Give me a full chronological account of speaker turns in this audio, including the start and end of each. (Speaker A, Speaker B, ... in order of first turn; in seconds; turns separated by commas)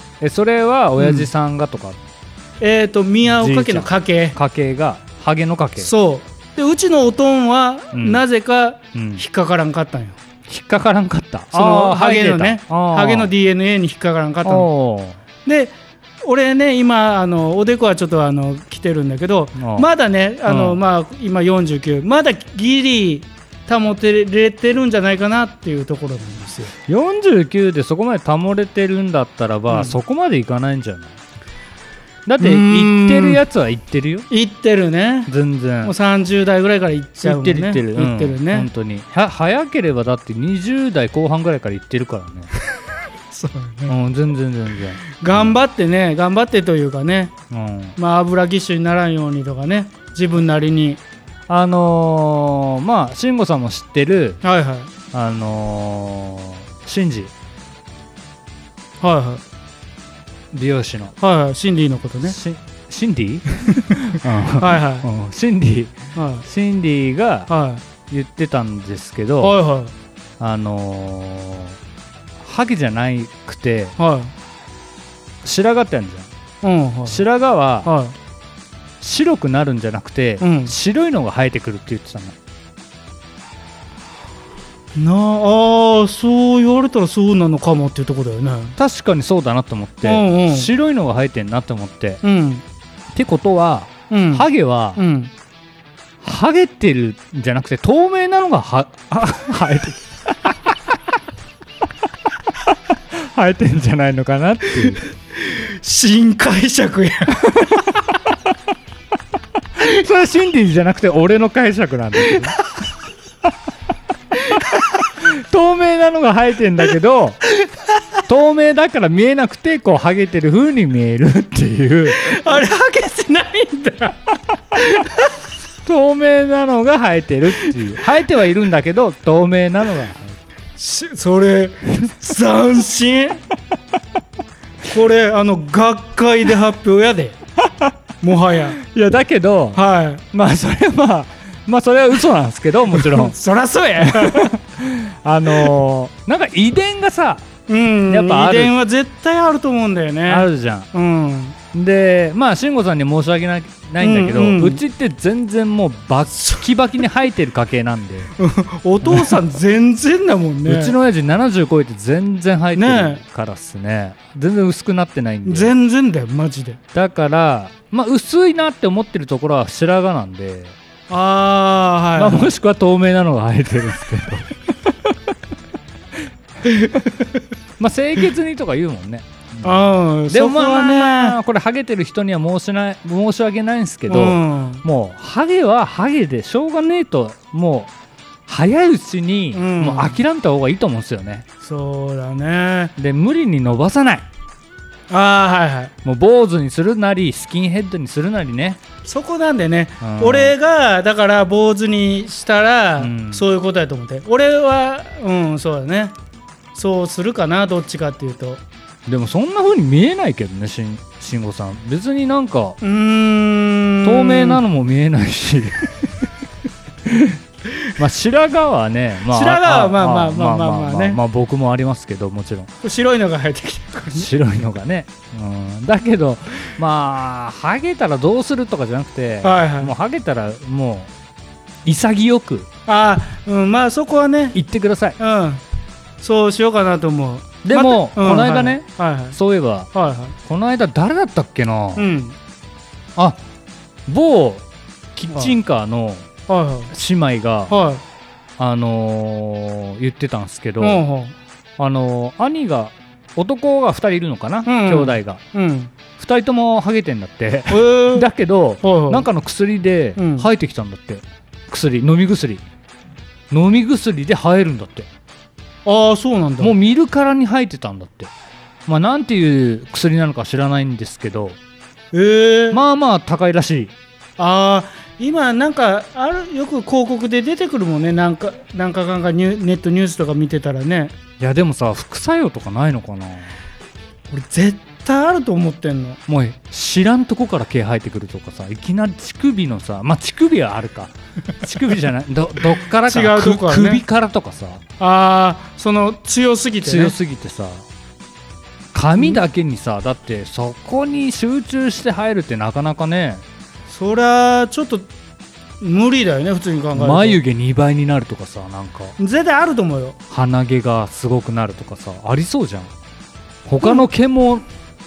Speaker A: 0.2-2.0, Speaker B: 1.0-1.3, Speaker B: 2.6-4.4, Speaker A: 3.2-5.9, Speaker B: 5.8-10.2, Speaker A: 7.9-8.2, Speaker A: 8.9-9.2, Speaker A: 10.5-13.3, Speaker B: 11.5-14.7, Speaker A: 14.4-15.2, Speaker B: 15.4-26.7, Speaker A: 19.6-19.9, Speaker A: 20.4-20.8, Speaker A: 26.9-31.1, Speaker B: 29.7-30.0, Speaker A: 32.2-34.3, Speaker B: 32.4-33.4, Speaker B: 34.3-35.3, Speaker A: 35.3-35.9, Speaker B: 35.8-38.7, Speaker A: 37.2-42.5, Speaker B: 43.3-44.0, Speaker A: 43.9-45.6, Speaker B: 45.2-47.3, Speaker A: 47.5-48.0, Speaker B: 48.0-51.0, Speaker A: 51.5-54.4, Speaker B: 54.4-54.9, Speaker A: 55.1-57.3, Speaker B: 59.0-59.4, Speaker A: 60.5-61.1, Speaker B: 61.2-62.4, Speaker A: 62.2-67.5, Speaker B: 64.6-65.1, Speaker B: 66.1-66.5, Speaker B: 67.5-67.8, Speaker A: 68.1-69.6, Speaker B: 69.4-69.9, Speaker A: 70.4-71.8, Speaker A: 72.4-74.0, Speaker B: 74.0-74.3, Speaker A: 75.4-76.3, Speaker B: 76.6-77.2, Speaker A: 77.1-77.9, Speaker B: 77.8-78.1, Speaker A: 79.0-82.4, Speaker B: 80.4-80.7, Speaker B: 84.9-88.8, Speaker A: 88.8-92.2, Speaker B: 90.0-90.7, Speaker B: 92.2-92.6, Speaker A: 93.1-95.0, Speaker B: 94.1-95.3, Speaker A: 96.2-100.7, Speaker A: 102.7-105.0, Speaker B: 104.8-107.8, Speaker A: 107.4-107.9, Speaker A: 109.8-112.5, Speaker A: 115.0-117.5, Speaker A: 118.3-122.4, Speaker B: 122.1-124.2, Speaker B: 124.7-125.3, Speaker A: 125.8-130.4, Speaker B: 130.8-133.4, Speaker B: 134.8-137.4, Speaker A: 137.7-137.9, Speaker B: 138.2-138.8, Speaker A: 138.8-143.3, Speaker B: 139.7-140.2, Speaker B: 142.9-144.5, Speaker A: 144.0-147.5, Speaker B: 147.7-151.6, Speaker A: 148.1-148.7, Speaker A: 150.3-150.9, Speaker A: 151.7-158.3, Speaker B: 154.0-154.8, Speaker B: 156.4-156.7, Speaker B: 158.4-160.9, Speaker A: 159.0-159.4, Speaker A: 160.7-165.7, Speaker B: 162.7-163.2, Speaker B: 165.4-166.8, Speaker A: 166.9-170.8, Speaker B: 171.1-172.5, Speaker A: 172.2-175.2, Speaker B: 176.6-177.4, Speaker A: 177.8-187.9, Speaker B: 179.6-181.4, Speaker B: 184.1-184.8, Speaker A: 188.5-191.4, Speaker B: 189.5-190.2, Speaker B: 191.6-192.9, Speaker A: 193.0-194.2, Speaker B: 195.1-195.9, Speaker A: 196.0-198.8, Speaker B: 199.0-206.1, Speaker A: 200.0-200.5, Speaker A: 203.0-203.4, Speaker B: 206.7-208.6, Speaker A: 209.1-212.8, Speaker B: 212.8-214.6, Speaker A: 214.0-216.1, Speaker A: 217.0-217.4, Speaker A: 217.9-222.7, Speaker B: 219.3-221.2, Speaker B: 222.8-224.3, Speaker A: 224.1-231.1, Speaker B: 229.4-229.9, Speaker A: 231.8-232.7, Speaker B: 232.9-234.6, Speaker A: 234.5-235.2, Speaker B: 235.2-235.6, Speaker B: 236.2-239.3, Speaker A: 237.6-239.9, Speaker B: 239.9-240.3, Speaker A: 240.4-242.1, Speaker B: 241.9-242.3, Speaker A: 244.1-246.3, Speaker B: 245.3-245.6, Speaker B: 246.5-246.9, Speaker A: 246.9-247.8, Speaker B: 247.7-248.0, Speaker A: 248.6-251.0, Speaker B: 250.8-251.3, Speaker A: 251.8-255.4, Speaker B: 254.7-255.9, Speaker A: 256.2-262.6, Speaker B: 257.7-258.3, Speaker B: 258.8-259.3, Speaker B: 260.2-260.5, Speaker A: 263.5-265.1, Speaker B: 265.9-266.7, Speaker A: 266.6-268.3, Speaker A: 268.9-271.6, Speaker B: 272.1-272.8, Speaker A: 272.7-273.9, Speaker B: 274.4-281.1, Speaker A: 281.4-283.6, Speaker B: 284.3-286.2, Speaker A: 286.3-294.8, Speaker B: 293.1-294.0, Speaker B: 295.0-297.1, Speaker A: 296.8-297.8, Speaker A: 298.9-303.4, Speaker B: 303.9-305.1, Speaker B: 305.8-307.4, Speaker A: 306.9-309.1, Speaker B: 309.2-310.2, Speaker A: 310.3-312.9, Speaker A: 313.6-314.6